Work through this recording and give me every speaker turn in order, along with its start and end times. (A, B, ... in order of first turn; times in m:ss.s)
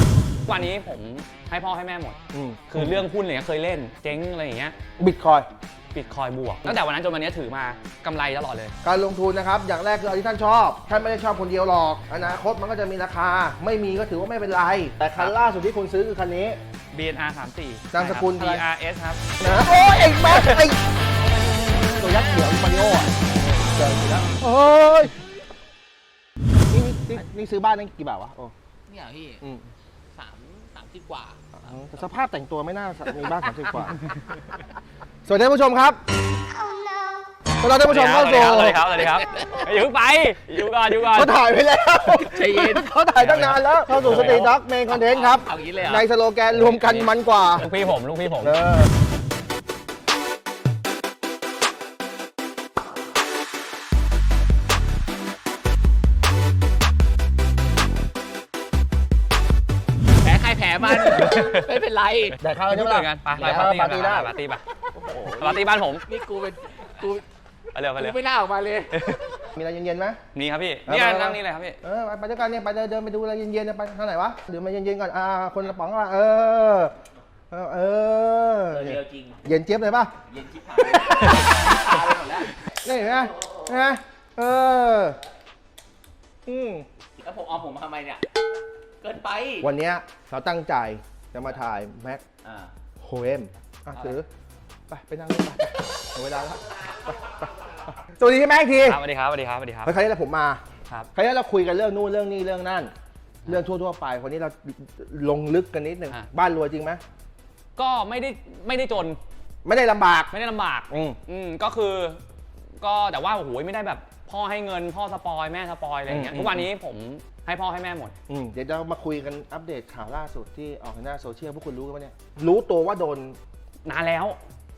0:00.4-0:02.2 A
0:02.3-0:03.0 B
0:02.7-0:04.8 A
0:05.0-0:05.5 B
0:05.9-0:08.7 A
0:08.8-0:16.6 B
0:15.0-0:15.3 A
0:16.9-0:19.2 A
0:17.9-0:18.6 B
0:19.4-0:20.8 B
0:20.2-0:20.6 A
0:21.9-0:25.2 B
0:26.7-0:28.5 B
0:28.9-0:29.4 C
0:29.4-0:29.7 B
0:30.1-0:31.4 C
0:31.6-0:34.1 B
0:35.2-0:36.0 B
0:37.6-0:39.0 B
0:37.8-0:41.4 A
0:41.1-0:47.7 B
0:42.1-0:43.0 C
0:43.2-0:44.5 A
0:44.9-0:46.0 C
0:46.5-0:48.6 A
0:48.4-0:48.9 B
1:00.2-1:02.4 C
1:01.0-1:01.7 A
1:02.3-1:04.6 A
1:02.4-1:04.3 B
1:04.9-1:07.2 C
1:05.2-1:06.1 A
1:07.7-1:08.2 A
1:08.0-1:09.3 C
1:08.9-1:09.4 A
1:09.5-1:10.2 B
1:10.3-1:11.8 A
1:10.9-1:16.9 B
1:17.5-1:20.1 B
1:18.7-1:19.4 C
1:20.3-1:22.5 C
1:22.7-1:25.2 B
1:26.4-1:26.8 B
1:27.2-1:28.3 C
1:29.0-1:29.7 C
1:29.6-1:32.2 B
1:32.4-1:32.7 C
1:33.0-1:34.3 B
1:34.9-1:39.0 B
1:38.8-1:39.9 A
1:39.8-1:40.6 B
1:41.1-1:42.9 B
1:43.4-1:47.0 B
1:47.8-1:49.2 A
1:49.6-1:50.3 B
1:50.3-1:52.2 A
1:50.9-1:51.2 B
1:52.8-1:58.2 A
1:56.1-1:56.7 B
1:58.3-2:03.4 B
2:03.8-2:04.4 A